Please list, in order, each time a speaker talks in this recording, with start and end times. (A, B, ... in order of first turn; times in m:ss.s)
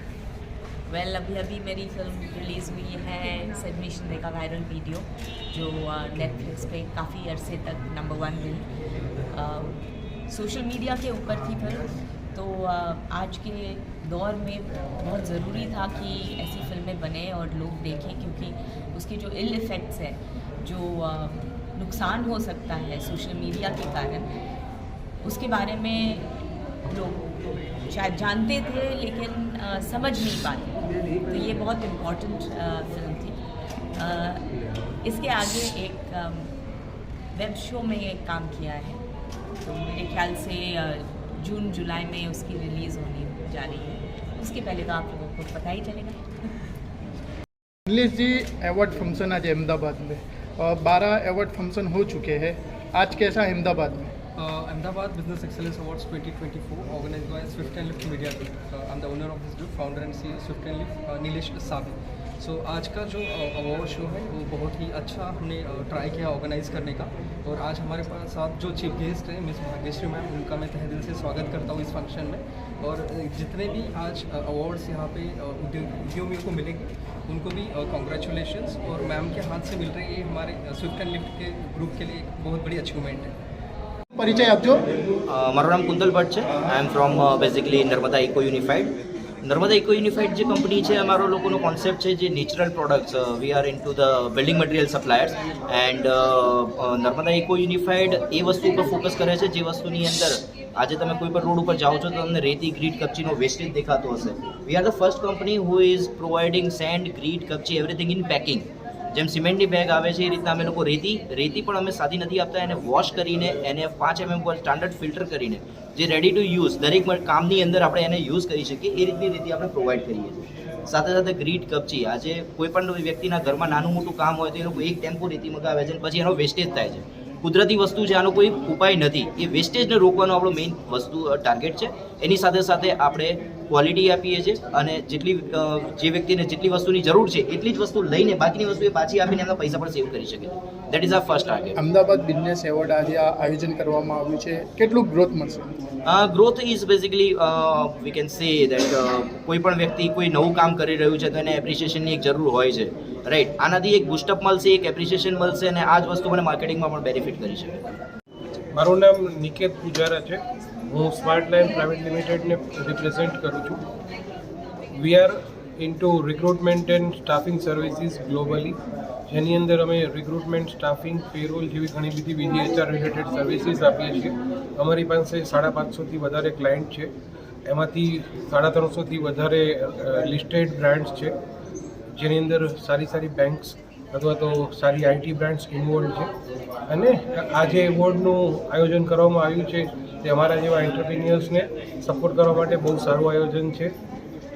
0:00.9-0:08.7 A
0:09.3-0:24.3 A
0:25.2-0:26.3 A
0:26.8-0:27.3 A
0:27.9-0:33.4 A
0:33.9-0:34.5 A
0:35.0-0:36.5 A
0:37.3-0:39.0 A
0:39.6-0:46.5 A
0:47.9-0:54.1 B
0:54.4-1:23.3 C
1:24.1-1:24.9 B
1:25.3-2:21.7 D
2:21.8-2:25.8 B
2:26.0-2:37.8 D
2:38.8-2:40.4 E
2:40.9-2:43.8 E
2:44.9-2:48.8 E
2:49.3-2:57.1 E
2:57.7-3:01.4 E
3:02.2-3:06.3 E
3:06.9-3:13.9 E